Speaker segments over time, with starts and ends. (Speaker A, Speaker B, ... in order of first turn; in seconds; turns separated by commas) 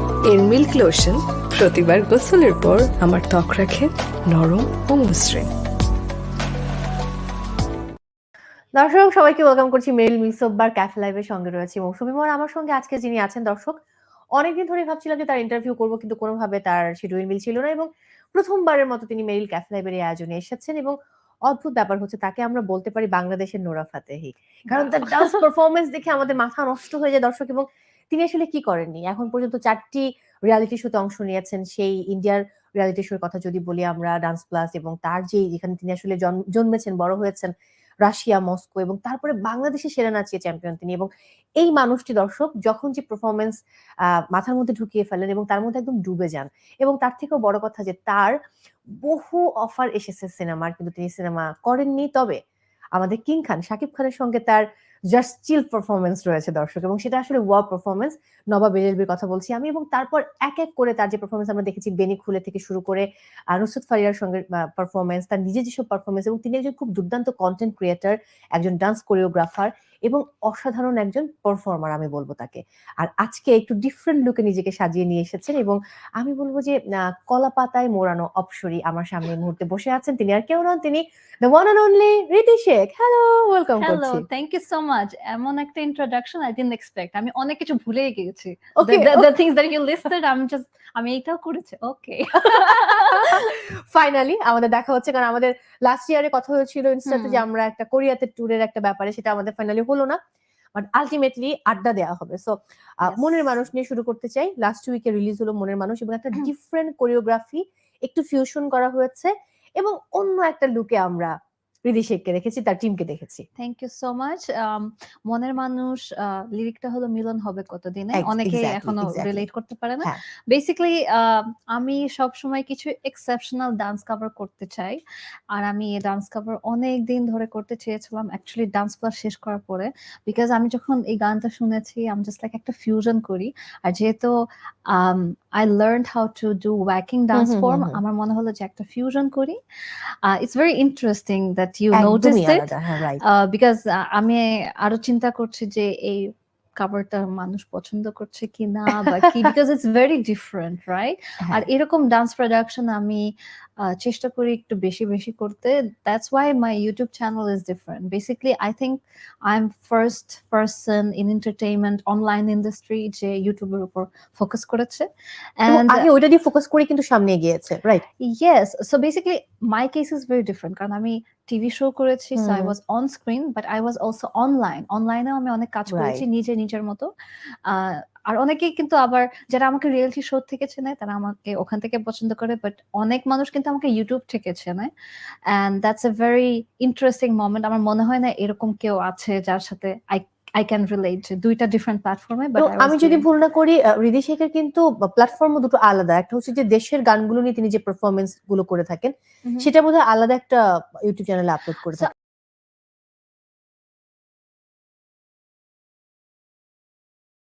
Speaker A: 0.2-5.5, Speaker B: 8.8-13.8, Speaker B: 14.4-37.5, Speaker B: 38.0-43.6, Speaker B: 44.3-48.4, Speaker B: 48.9-52.4, Speaker B: 53.0-84.2, Speaker C: 83.8-93.5, Speaker B: 88.8-89.3, Speaker B: 92.5-100.2, Speaker C: 97.1-97.4, Speaker B: 100.7-113.5, Speaker C: 103.0-103.5, Speaker C: 113.6-125.0, Speaker B: 118.2-119.5, Speaker C: 125.5-139.6, Speaker B: 137.3-138.0, Speaker C: 140.2-166.1, Speaker B: 141.9-143.2, Speaker B: 165.7-168.1, Speaker C: 168.2-177.1, Speaker B: 172.4-172.7, Speaker B: 175.9-176.2, Speaker C: 177.7-184.9, Speaker C: 185.5-193.3, Speaker B: 192.6-202.1